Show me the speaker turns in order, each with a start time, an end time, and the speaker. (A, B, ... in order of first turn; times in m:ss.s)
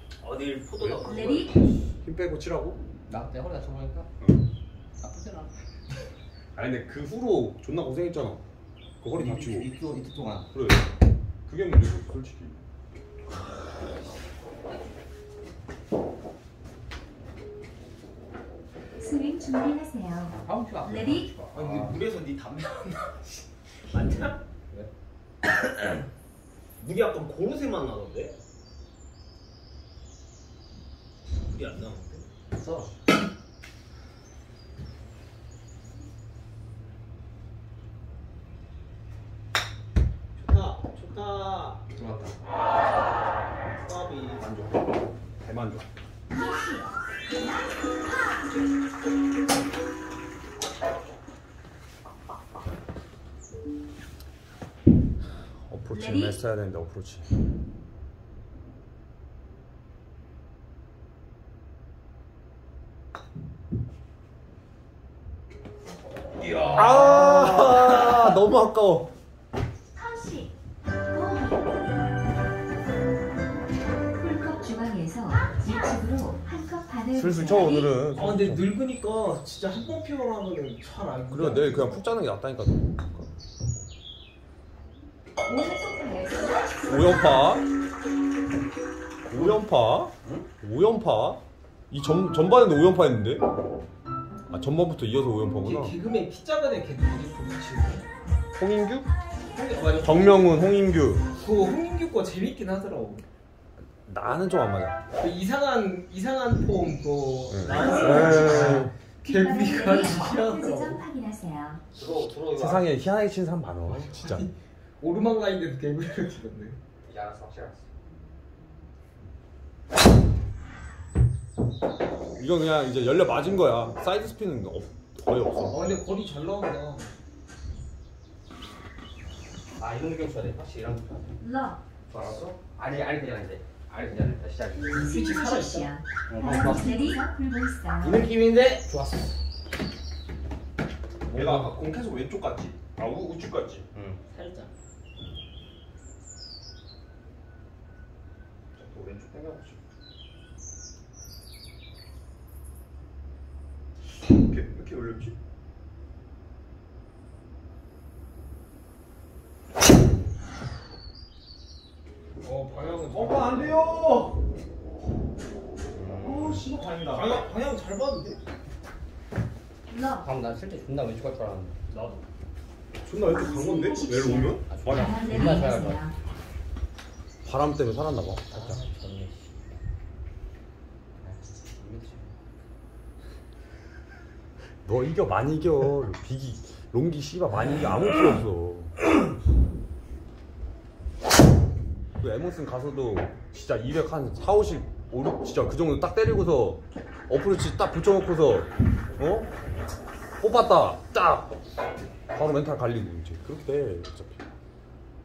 0:00.2-0:01.5 A
0:00.7-0:02.8 B
0:01.1-0:01.5 C
0:03.1-0:04.1 D
0:05.0-0:05.5 D
0:06.5-0:08.4 B
0:09.0-0:09.7 B
0:09.2-0:10.5 D
0:10.5-0:10.9 B
0:11.4-0:12.6 B
0:19.0-0:21.3 C
0:20.3-0:22.0 D
0:21.5-0:24.4 A
0:26.8-0:28.4 A
0:31.5-0:32.3 A
0:32.6-0:32.9 D
0:40.4-0:41.8 A
0:42.0-0:42.4 D
0:43.8-0:44.5 A
0:44.4-0:45.9 B
0:46.3-0:46.9 C
0:55.7-0:57.2 B
1:06.4-1:08.4 A
1:06.7-1:09.1 B
1:10.0-1:10.5 C
1:11.1-1:11.7 C
1:14.2-1:17.9 C
1:17.1-1:18.7 B
1:18.2-1:22.0 A
1:21.3-1:23.3 B
1:25.4-1:27.3 C
1:26.8-1:27.6 B
1:29.3-1:33.4 B
1:34.5-1:35.9 B
1:35.6-1:38.0 A
1:38.6-1:39.1 B
1:39.5-1:40.6 A
1:40.0-1:41.2 B
1:41.4-1:43.2 A
1:44.1-1:45.0 B
1:45.2-1:51.0 A
1:47.5-1:48.9 B
1:48.2-1:48.5 D
1:49.2-1:51.8 C
1:51.9-1:52.9 D
1:52.6-1:54.5 B
1:54.0-1:56.8 A
1:57.0-1:57.9 D
2:02.4-2:05.7 B
2:05.6-2:07.1 A
2:09.8-2:11.2 D
2:11.4-2:11.8 C
2:12.1-2:15.1 D
2:12.1-2:12.6 B
2:14.9-2:15.9 A
2:14.9-2:18.2 C
2:16.3-2:17.2 D
2:18.0-2:19.4 D
2:21.3-2:23.9 B
2:21.3-2:21.8 D
2:23.9-2:24.2 D
2:24.3-2:24.7 A
2:28.8-2:29.8 B
2:34.3-2:35.3 B
2:42.4-2:43.8 A
2:43.1-2:44.4 B
2:45.9-2:46.8 D
2:46.2-2:47.4 B
2:47.0-2:48.4 A
2:49.9-2:50.3 C
2:50.2-2:51.8 D
2:51.9-2:52.2 A
2:53.0-2:55.5 B
2:53.2-2:56.1 C
2:54.7-2:56.0 D
2:57.4-2:58.8 B
2:58.5-2:59.8 D
3:01.2-3:02.4 D
3:04.8-3:09.0 B
3:12.2-3:19.5 B
3:20.4-3:21.5 B
3:22.3-3:24.4 B